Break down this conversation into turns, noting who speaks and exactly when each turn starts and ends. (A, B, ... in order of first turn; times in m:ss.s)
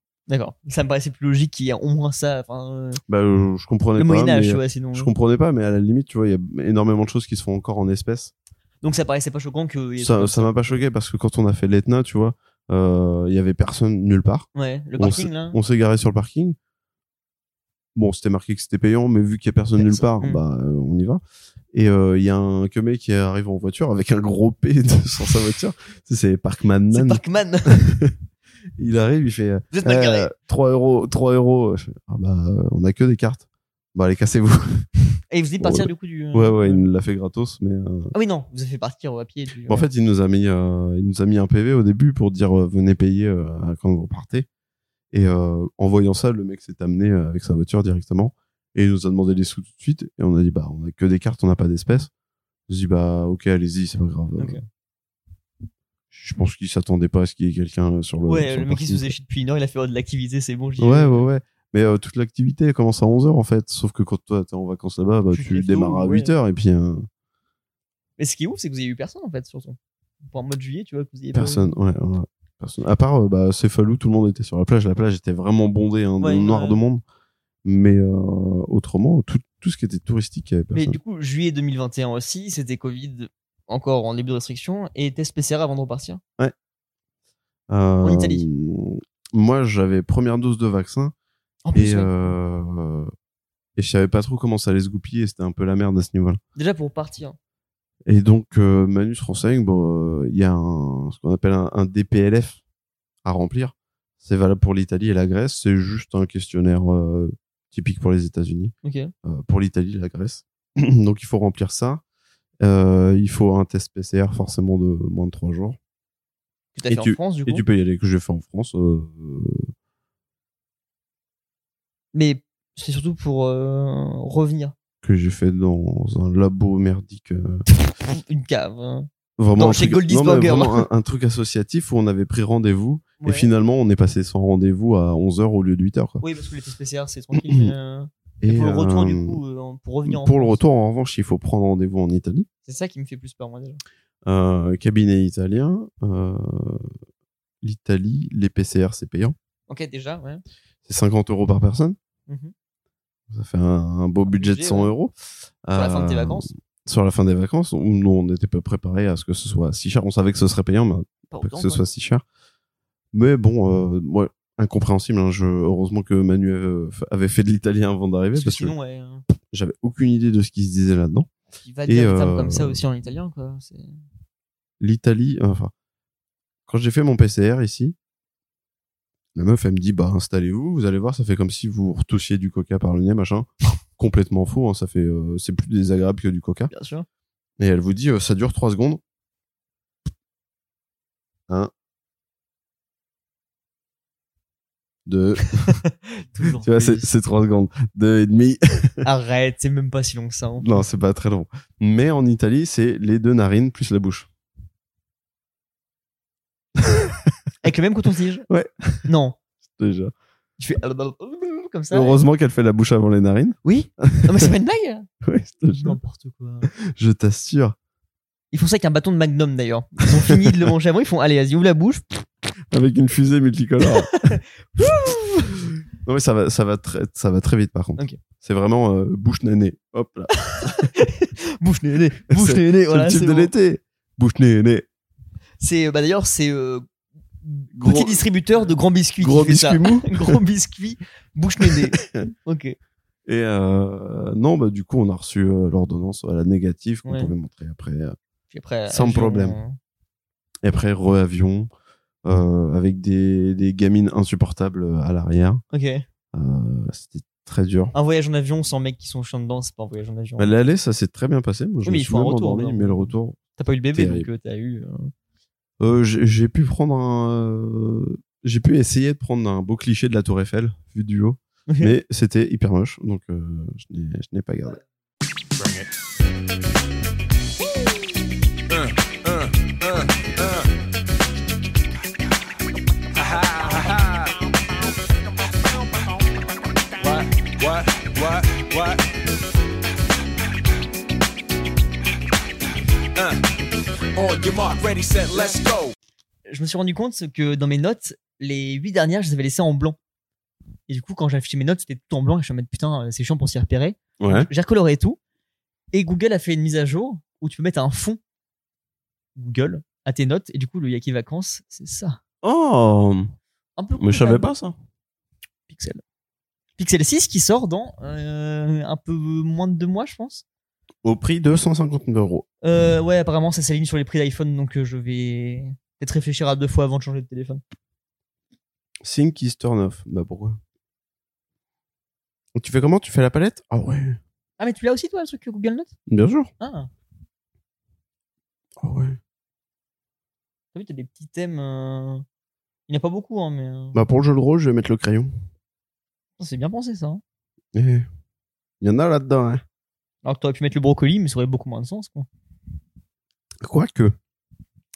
0:00.3-0:03.0 A
0:03.1-0:08.3 B
0:04.0-0:05.1 A
0:08.8-0:10.8 A
0:10.0-0:14.5 B
0:14.6-0:15.6 A
0:15.0-0:16.6 B
0:18.0-0:21.2 B
0:19.8-0:20.4 A
0:21.7-0:28.2 B
0:26.9-0:27.8 A
0:28.8-0:35.0 B
0:29.7-0:30.3 A
0:35.3-0:36.8 A
0:35.6-0:38.1 B
0:38.1-0:39.9 A
0:39.7-0:44.5 B
0:45.1-0:52.1 B
0:52.7-0:54.6 B
0:56.1-0:59.1 B
0:58.3-1:01.3 A
1:00.8-1:07.1 B
1:05.3-1:06.3 A
1:08.2-1:11.7 A
1:11.3-1:17.0 B
1:16.2-1:16.8 A
1:17.6-1:21.0 B
1:20.7-1:26.2 A
1:27.7-1:31.1 B
1:28.0-1:28.4 A
1:31.6-1:32.1 A
1:31.8-1:33.1 B
1:33.8-1:36.4 B
1:36.6-1:37.4 A
1:38.1-1:42.6 B
1:43.2-1:48.7 B
1:48.8-1:49.1 A
1:49.2-1:52.0 B
1:52.6-1:55.8 B
1:56.8-1:57.6 A
1:56.9-1:59.7 B
2:02.1-2:04.8 A
2:05.0-2:07.6 B
2:07.9-2:10.9 A
2:09.4-2:16.2 B
2:13.2-2:13.5 A
2:16.2-2:20.6 A
2:17.4-2:17.7 B
2:18.4-2:19.4 B
2:20.1-2:22.5 B
2:22.7-2:23.8 A
2:24.3-2:26.9 B
2:27.6-2:29.4 B
2:29.7-2:30.4 A
2:30.8-2:32.0 B
2:32.3-2:32.5 A
2:33.3-2:35.1 B
2:34.3-2:34.9 A
2:35.7-2:42.2 B
2:35.8-2:36.5 A
2:41.3-2:41.8 A
2:43.1-2:48.7 B
2:48.4-2:49.2 A
2:49.5-2:51.3 B
2:51.6-2:54.0 A
2:51.9-2:52.8 B
2:54.8-2:55.7 B
2:56.7-2:58.0 B
2:59.4-3:06.7 B
3:06.7-3:07.1 A
3:07.6-3:09.0 B
3:15.1-3:15.7 B
3:15.4-3:17.1 A
3:16.6-3:19.0 B
3:19.0-3:20.8 A
3:20.6-3:24.3 B
3:26.8-3:27.3 B
3:27.6-3:28.5 A
3:28.5-3:29.1 B
3:29.1-3:29.4 A
3:29.6-3:30.1 B
3:30.6-3:32.2 A
3:31.9-3:34.5 B
3:33.6-3:35.1 A
3:35.2-3:36.0 B
3:35.7-3:36.7 A
3:36.7-3:37.8 B
3:38.5-3:42.0 A
3:42.7-3:50.9 B
3:43.8-3:45.1 A
3:50.4-3:53.5 A
3:52.3-3:54.9 B
3:55.6-3:56.8 A
3:57.4-4:02.8 A
3:57.7-3:58.2 B
3:59.2-4:00.4 B
4:01.6-4:02.3 B
4:03.3-4:08.2 B
4:07.0-4:07.3 A
4:08.5-4:09.8 A
4:08.9-4:09.6 B
4:10.6-4:11.7 B
4:12.2-4:15.6 B
4:15.7-4:16.0 A
4:16.3-4:17.9 B
4:17.9-4:20.5 A
4:20.4-4:23.4 B
4:21.8-4:25.1 A
4:23.9-4:24.3 B
4:25.8-4:34.8 B
4:31.7-4:31.9 A
4:35.6-4:35.9 C
4:38.7-4:40.7 C
4:43.2-4:44.4 C
4:45.7-4:46.0 C
4:47.0-4:49.0 C
4:54.1-4:55.9 C
4:56.5-5:00.0 A
5:00.9-5:05.2 A
5:04.2-5:04.5 B
5:05.9-5:08.2 A
5:09.4-5:12.2 A
5:12.4-5:13.3 B
5:13.8-5:14.5 A
5:14.0-5:14.8 B
5:15.7-5:16.0 A
5:16.8-5:20.4 A
5:21.0-5:22.5 B
5:22.6-5:27.6 A
5:29.0-5:30.6 B
5:32.6-5:34.2 B
5:34.6-5:35.9 A
5:36.1-5:36.5 B
5:36.6-5:36.9 A
5:38.8-5:39.2 B
5:40.7-5:42.2 A
5:42.9-5:44.0 A
5:43.9-5:45.4 B
5:46.4-5:47.2 A
5:47.7-5:48.1 B
5:48.8-5:49.6 B
5:50.2-5:52.3 A
5:53.6-5:54.2 B